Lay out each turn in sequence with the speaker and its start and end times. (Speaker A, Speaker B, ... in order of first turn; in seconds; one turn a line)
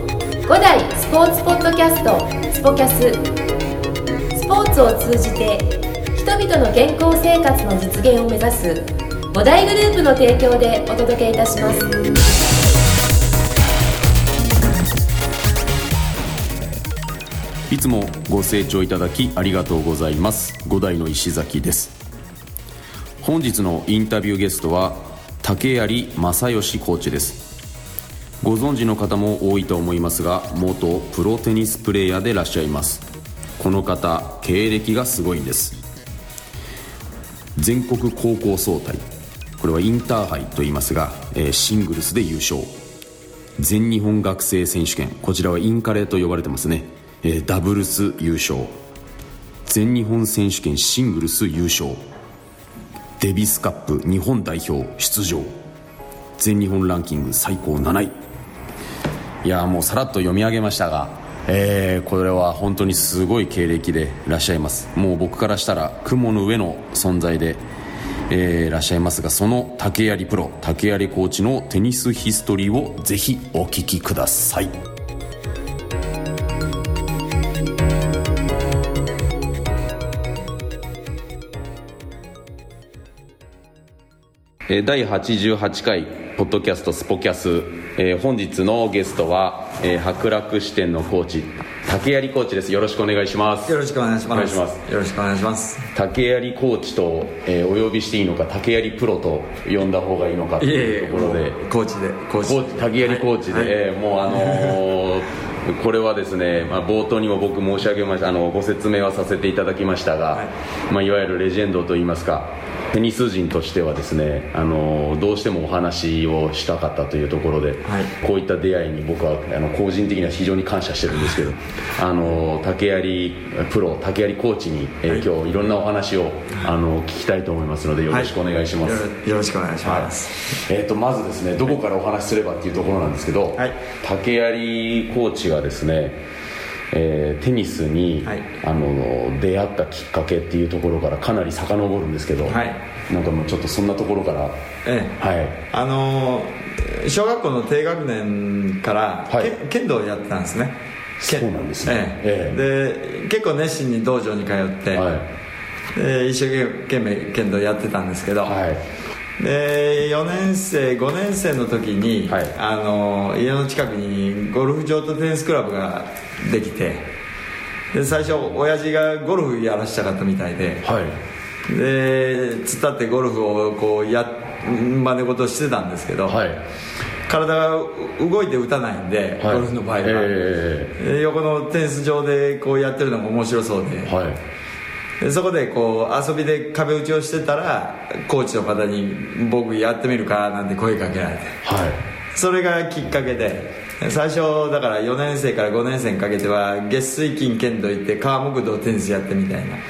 Speaker A: 0.5-3.2
Speaker A: 4.3-11.9
Speaker B: 17.7-22.0
Speaker B: 23.2-27.5
Speaker B: 28.4-33.1
Speaker B: 33.6-35.8
Speaker B: 37.6-39.1
Speaker B: 39.6-42.7
Speaker B: 43.6-48.7
Speaker B: 49.7-52.0
Speaker B: 53.2-55.5
Speaker B: 56.4-58.2
Speaker B: 59.4-67.6
Speaker B: 68.3-74.7
Speaker B: 84.7-93.8
Speaker C: 93.7-95.9
Speaker B: 94.3-94.8
Speaker B: 96.0-101.6
Speaker C: 100.6-103.8
Speaker B: 102.4-129.0
Speaker C: 104.3-104.8
Speaker C: 117.8-118.1
Speaker C: 128.8-130.4
Speaker B: 129.8-136.2
Speaker B: 136.9-142.6
Speaker C: 142.5-142.8
Speaker B: 143.1-144.6
Speaker C: 144.8-145.1
Speaker B: 145.2-145.6
Speaker C: 145.7-150.7
Speaker B: 151.2-152.6
Speaker C: 151.3-155.1
Speaker B: 154.9-155.3
Speaker C: 155.9-158.6
Speaker B: 158.4-158.8
Speaker C: 159.4-167.0
Speaker B: 162.3-162.5
Speaker C: 167.9-170.8
Speaker B: 170.8-171.2
Speaker C: 171.7-176.4
Speaker B: 176.3-176.6
Speaker C: 177.3-180.3
Speaker B: 179.4-180.9
Speaker C: 181.0-184.1
Speaker B: 184.1-184.4
Speaker C: 185.2-191.6
Speaker B: 191.6-192.0
Speaker C: 192.3-199.8